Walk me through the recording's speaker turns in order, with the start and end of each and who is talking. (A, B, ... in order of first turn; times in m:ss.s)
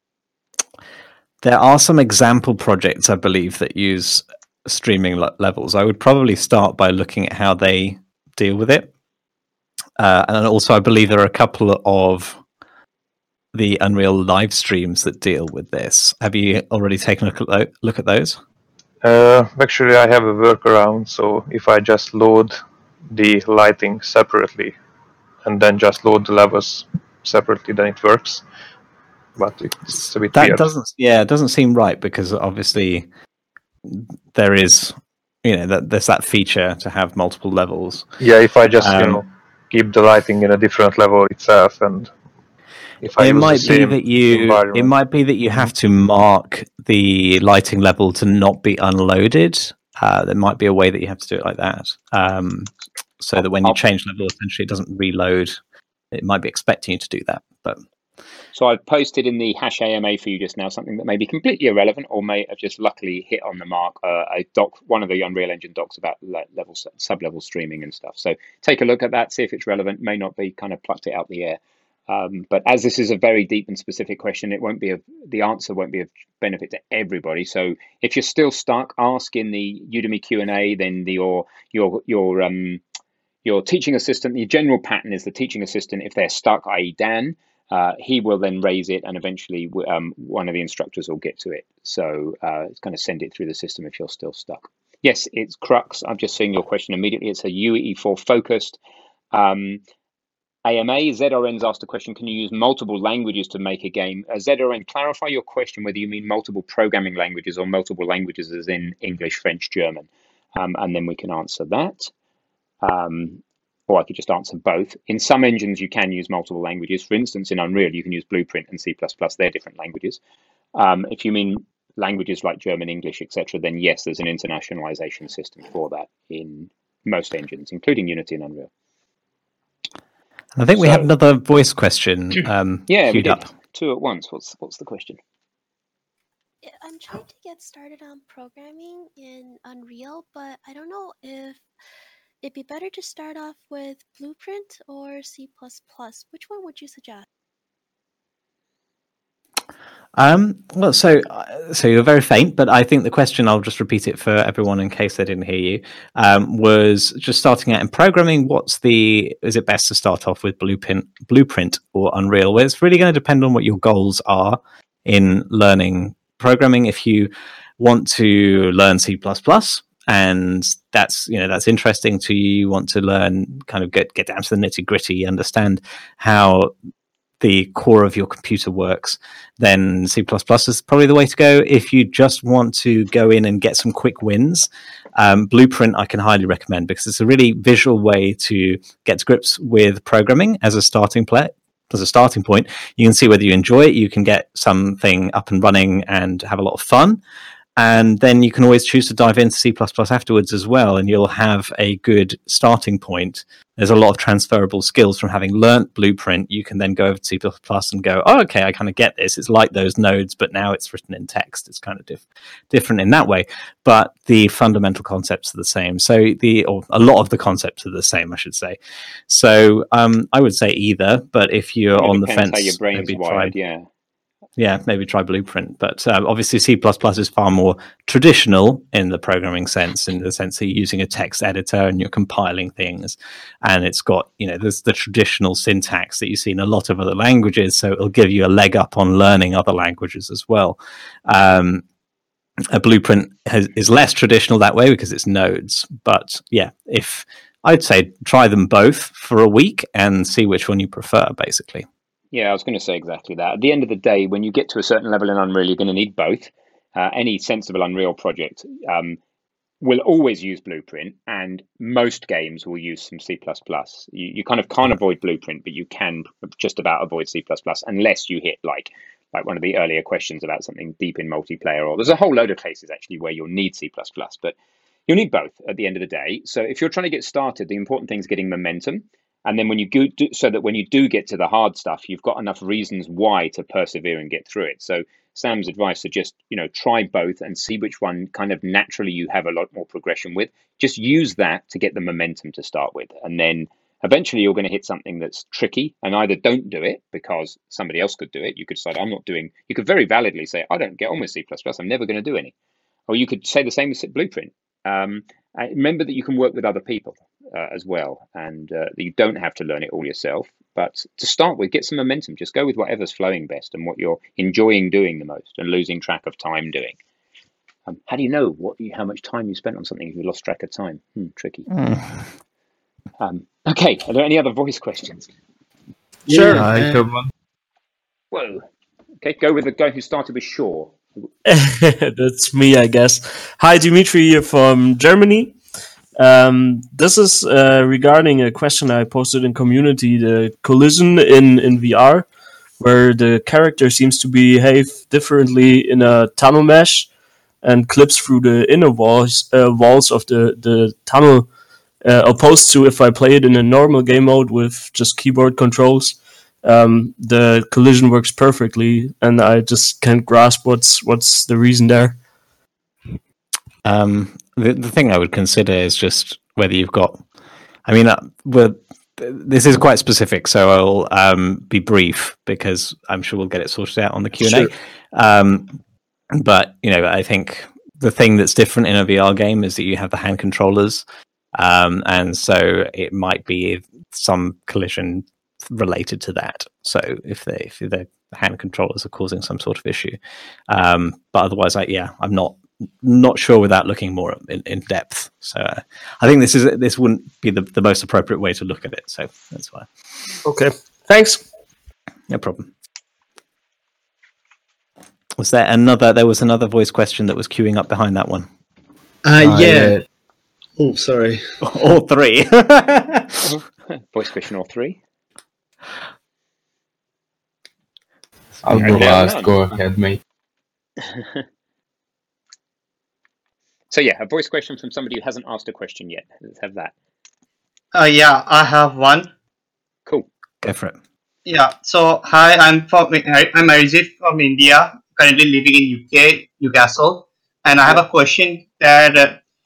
0:01.4-0:08.9 A
0:10.0-0:12.4 A
0:13.5-0:18.4 A
0:19.0-0:22.6 B
0:23.1-0:24.7 B
0:25.4-0:28.4 B
0:29.4-0:30.7 B
0:30.3-0:33.1 A
0:33.9-0:38.1 A
0:38.2-0:42.1 B
0:38.8-0:39.2 A
0:43.0-0:44.9 B
0:43.2-0:55.6 A
0:56.1-0:57.8 A
0:58.5-1:22.8 C
1:23.4-1:38.8 C
1:39.3-1:39.8 C
1:40.6-1:52.1 C
1:52.8-2:00.2 C
2:00.8-2:08.7 C
2:10.6-2:13.5 A
2:10.8-2:11.1 C
2:12.9-2:15.2 C
2:16.6-2:21.6 D
2:22.4-2:27.3 D
2:30.2-2:56.7 A
2:57.4-3:17.2 A
3:17.8-3:43.5 A
3:42.0-3:43.9 C
3:44.6-4:01.8 A
4:02.7-4:11.9 A
4:12.3-4:19.2 C
4:19.8-4:34.6 C
4:35.1-5:02.5 C
5:03.1-5:17.0 C
5:17.9-5:21.7 C
5:21.7-5:22.3 A
5:23.2-5:25.3 C
5:26.3-5:27.0 E
5:26.3-5:27.3 F
5:28.3-5:28.6 C
5:29.2-5:31.0 C
5:31.4-5:35.6 G
5:36.2-5:42.3 G
5:42.8-5:47.1 G
5:47.6-5:51.5 G
5:52.0-6:02.2 G
6:03.8-6:07.2 A
6:07.9-6:15.8 A
6:16.3-6:39.9 A
6:40.4-6:41.4 G
6:42.3-6:42.7 A
6:45.4-6:48.5 A
6:49.2-6:50.0 E
6:49.4-6:50.0 F
6:50.8-6:51.4 E
6:51.6-6:53.4 A
6:53.4-6:55.0 C
6:58.6-7:00.2 F
6:58.7-6:59.6 C
7:01.0-7:01.4 C
7:03.9-7:06.9 C
7:07.9-7:09.3 H
7:10.6-7:11.0 A
7:11.5-7:19.4 H